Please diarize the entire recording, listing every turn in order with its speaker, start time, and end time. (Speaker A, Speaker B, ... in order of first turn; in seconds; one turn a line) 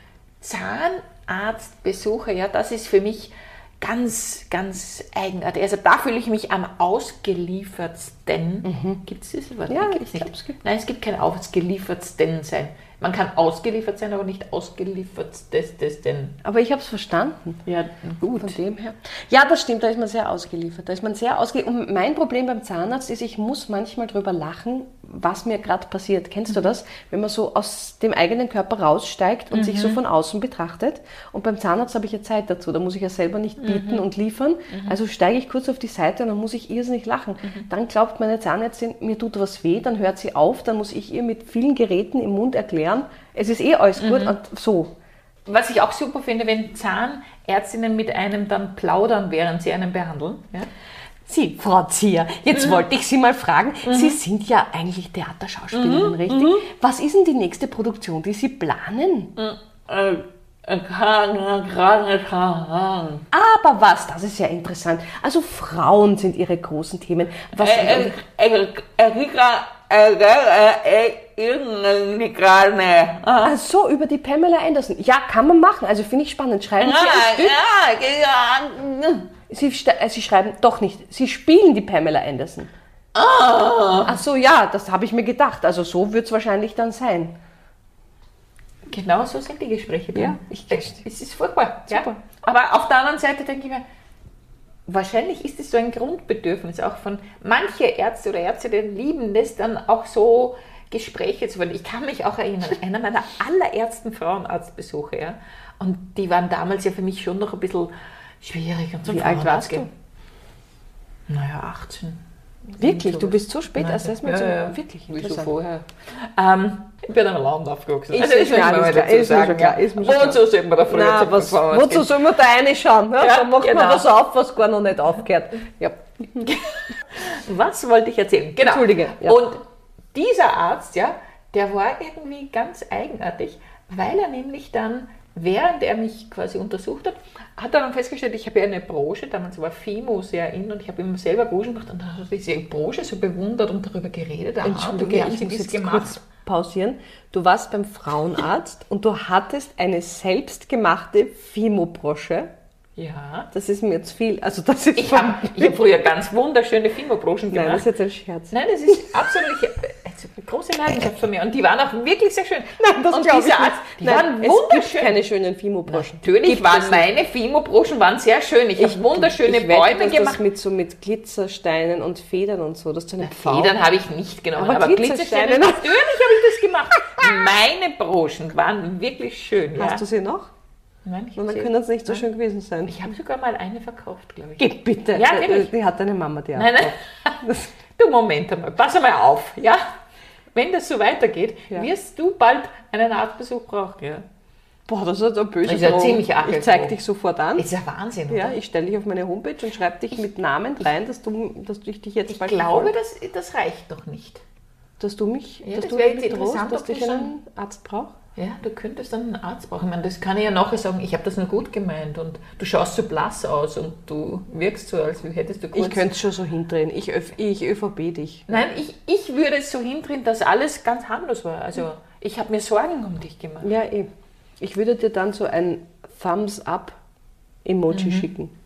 Speaker A: 0.4-16.4
Speaker B: 8.7-9.0
Speaker B: 9.7-10.6
Speaker B: 16.4-17.6
Speaker A: 17.7-18.6
Speaker B: 18.2-44.9
Speaker A: 29.5-30.0
Speaker A: 33.6-34.1
Speaker A: 34.7-35.0
Speaker A: 44.0-44.4
Speaker A: 45.5-50.7
Speaker B: 51.3-59.3
Speaker A: 52.5-52.9
Speaker A: 53.9-54.2
Speaker A: 55.7-56.6
Speaker A: 59.4-63.2
Speaker B: 63.3-68.2
Speaker A: 67.6-73.5
Speaker B: 73.4-77.6
Speaker A: 76.8-79.3
Speaker B: 79.5-82.7
Speaker A: 83.1-84.2
Speaker B: 84.1-87.3
Speaker A: 88.9-93.8
Speaker B: 90.1-91.0
Speaker B: 91.9-92.2
Speaker A: 94.9-109.9
Speaker B: 109.0-109.9
Speaker A: 111.3-122.2
Speaker B: 112.8-115.5
Speaker B: 118.1-126.5
Speaker A: 123.2-124.1
Speaker A: 126.4-129.6
Speaker B: 128.6-129.4
Speaker A: 130.1-146.2
Speaker B: 144.6-152.5
Speaker A: 153.0-153.5
Speaker B: 153.5-155.8
Speaker A: 155.0-157.9
Speaker B: 157.5-159.0
Speaker A: 158.5-165.2
Speaker B: 162.8-167.1
Speaker A: 165.9-170.4
Speaker B: 168.8-173.8
Speaker A: 173.2-180.0
Speaker B: 174.6-177.3
Speaker B: 179.8-180.5
Speaker A: 181.1-182.2
Speaker B: 181.4-183.1
Speaker A: 182.9-185.7
Speaker B: 184.6-187.7
Speaker A: 186.6-187.4
Speaker A: 188.0-189.8
Speaker A: 190.5-194.2
Speaker B: 194.9-197.7
Speaker A: 195.6-197.0
Speaker A: 197.6-198.6
Speaker B: 198.3-202.9
Speaker A: 202.3-204.4
Speaker B: 205.0-208.2
Speaker A: 205.6-207.3
Speaker A: 208.4-216.1
Speaker B: 215.8-218.6
Speaker A: 218.5-223.7
Speaker B: 223.6-224.1
Speaker B: 224.6-227.0
Speaker B: 227.7-228.5
Speaker A: 227.9-228.3